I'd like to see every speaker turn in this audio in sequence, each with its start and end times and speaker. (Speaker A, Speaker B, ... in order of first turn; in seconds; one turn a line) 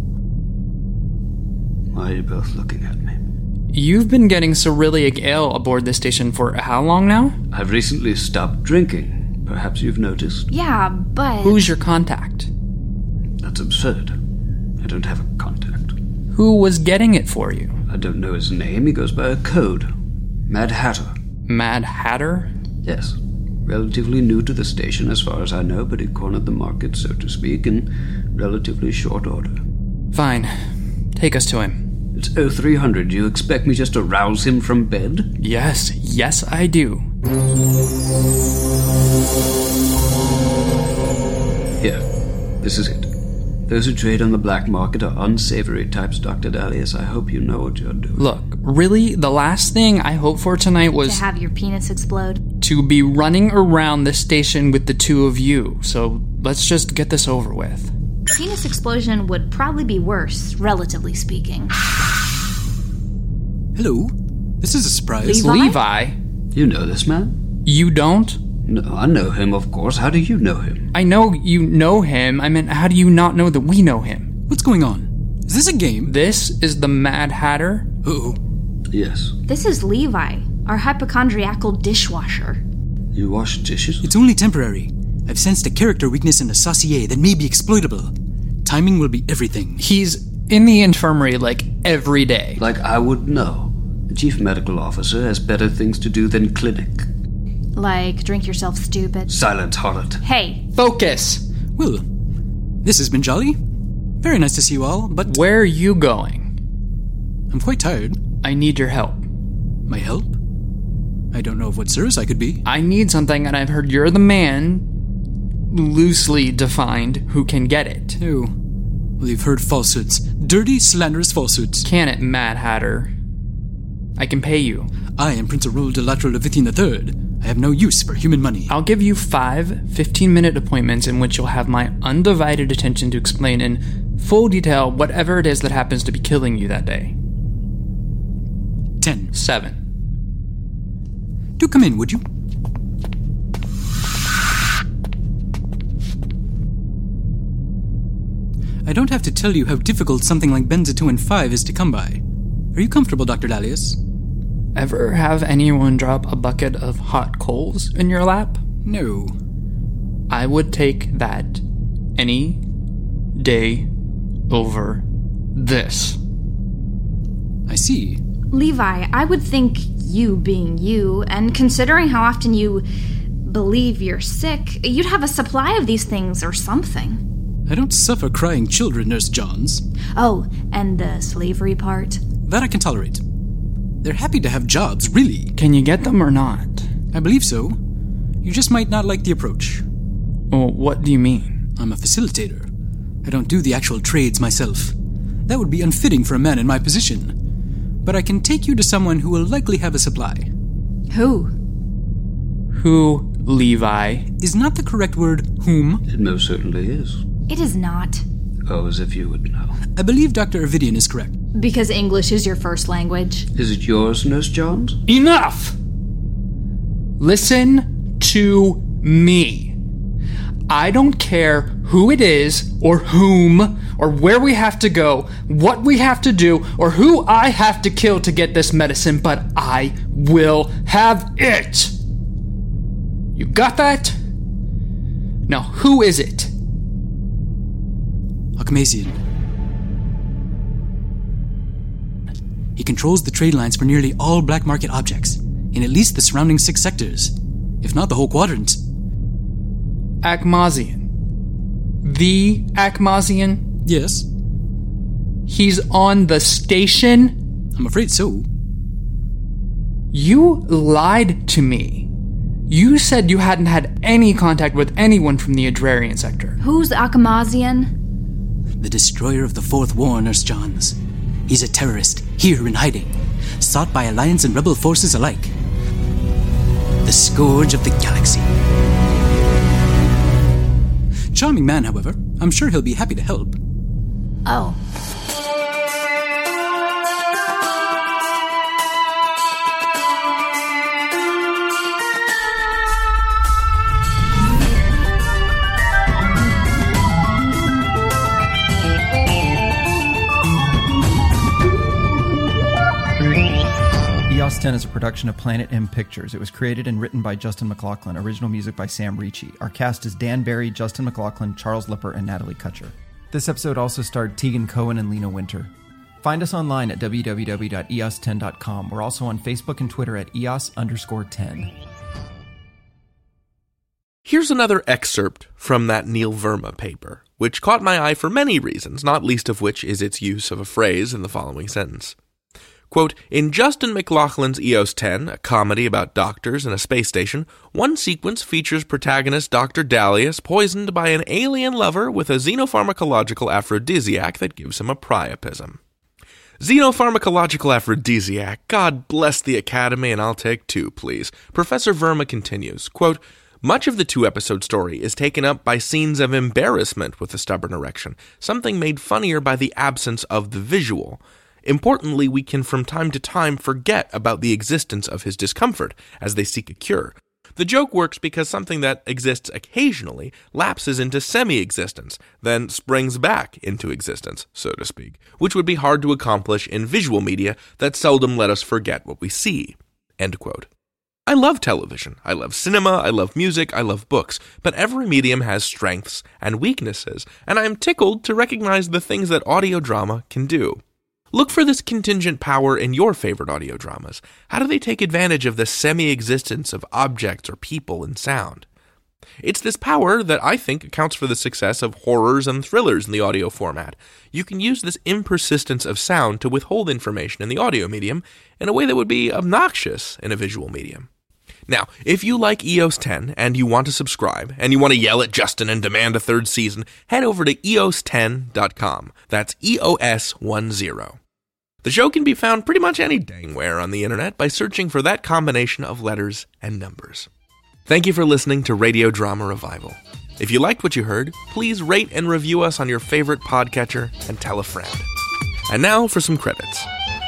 Speaker A: 1.9-3.1
Speaker B: 3.7-7.3
Speaker A: 7.5-10.5
Speaker C: 10.5-11.7
Speaker B: 11.4-12.5
Speaker A: 13.4-14.2
Speaker A: 14.8-15.9
Speaker B: 16.3-17.7
Speaker A: 17.9-19.9
Speaker A: 20.5-21.1
Speaker B: 21.4-22.5
Speaker A: 22.8-29.5
Speaker B: 30.1-30.5
Speaker B: 31.1-31.8
Speaker A: 32.1-35.3
Speaker B: 35.4-37.0
Speaker A: 42.6-43.1
Speaker A: 43.7-48.2
Speaker B: 48.2-51.2
Speaker C: 51.0-52.4
Speaker B: 52.6-57.9
Speaker C: 58.3-61.7
Speaker D: 63.7-65.4
Speaker C: 65.2-65.8
Speaker B: 65.3-66.2
Speaker A: 66.5-67.3
Speaker B: 67.7-68.4
Speaker A: 68.6-70.9
Speaker B: 70.9-74.3
Speaker D: 74.5-76.1
Speaker B: 76.0-77.9
Speaker D: 78.0-78.4
Speaker A: 78.9-79.3
Speaker C: 79.5-82.6
Speaker A: 83.1-84.0
Speaker D: 84.0-88.1
Speaker D: 88.6-89.8
Speaker B: 89.8-92.6
Speaker A: 92.6-97.1
Speaker C: 97.8-99.3
Speaker A: 99.3-100.2
Speaker C: 100.2-100.6
Speaker B: 100.8-101.4
Speaker D: 101.8-102.0
Speaker D: 102.8-103.6
Speaker D: 104.2-105.4
Speaker B: 105.2-106.5
Speaker D: 107.5-108.2
Speaker B: 108.4-109.2
Speaker D: 109.9-110.3
Speaker D: 111.3-112.6
Speaker B: 112.6-114.8
Speaker B: 115.7-118.2
Speaker D: 118.2-118.5
Speaker D: 119.2-121.8
Speaker B: 121.8-123.1
Speaker B: 124.2-124.9
Speaker D: 125.2-128.7
Speaker B: 128.7-137.1
Speaker D: 139.0-139.3
Speaker B: 139.3-139.8
Speaker D: 141.6-142.2
Speaker D: 148.8-152.2
Speaker D: 152.7-154.0
Speaker B: 154.7-158.6
Speaker D: 158.8-159.3
Speaker B: 160.3-161.6
Speaker B: 162.2-162.6
Speaker B: 163.4-163.9
Speaker B: 164.5-166.2
Speaker D: 167.7-168.2
Speaker C: 168.5-172.8
Speaker C: 173.4-177.2
Speaker D: 177.7-179.8
Speaker C: 180.2-182.2
Speaker D: 182.4-183.2
Speaker D: 184.0-185.5
Speaker B: 185.5-186.9
Speaker D: 187.1-187.8
Speaker D: 188.4-189.8
Speaker B: 190.5-191.6
Speaker D: 191.8-192.7
Speaker D: 193.2-194.9
Speaker D: 195.5-197.3
Speaker D: 198.0-200.5
Speaker C: 201.1-201.5
Speaker B: 202.7-204.3
Speaker D: 204.4-206.0
Speaker A: 206.1-207.2
Speaker C: 207.5-208.2
Speaker A: 208.7-209.8
Speaker D: 209.9-211.3
Speaker C: 211.5-213.5
Speaker A: 213.5-215.0
Speaker B: 215.1-215.8
Speaker B: 217.2-219.7
Speaker B: 220.7-231.9
Speaker B: 233.3-234.2
Speaker B: 235.5-236.5
Speaker D: 238.6-239.2
Speaker D: 242.8-248.8
Speaker B: 250.2-251.1
Speaker B: 252.0-253.7
Speaker D: 253.8-254.3
Speaker B: 255.5-257.4
Speaker D: 257.7-258.4
Speaker B: 260.1-262.1
Speaker B: 262.7-266.6
Speaker C: 266.6-267.9
Speaker D: 268.8-275.5
Speaker D: 277.0-278.5
Speaker D: 281.3-283.6
Speaker C: 284.4-284.8
Speaker E: 304.3-315.7
Speaker E: 316.2-321.7
Speaker F: 324.2-332.1
Speaker F: 332.9-345.8
Speaker F: 346.6-380.7
Speaker F: 381.3-390.8
Speaker F: 391.3-398.6
Speaker F: 399.4-411.1
Speaker F: 411.7-421.2
Speaker F: 421.8-427.3
Speaker F: 427.9-435.0
Speaker F: 435.7-436.9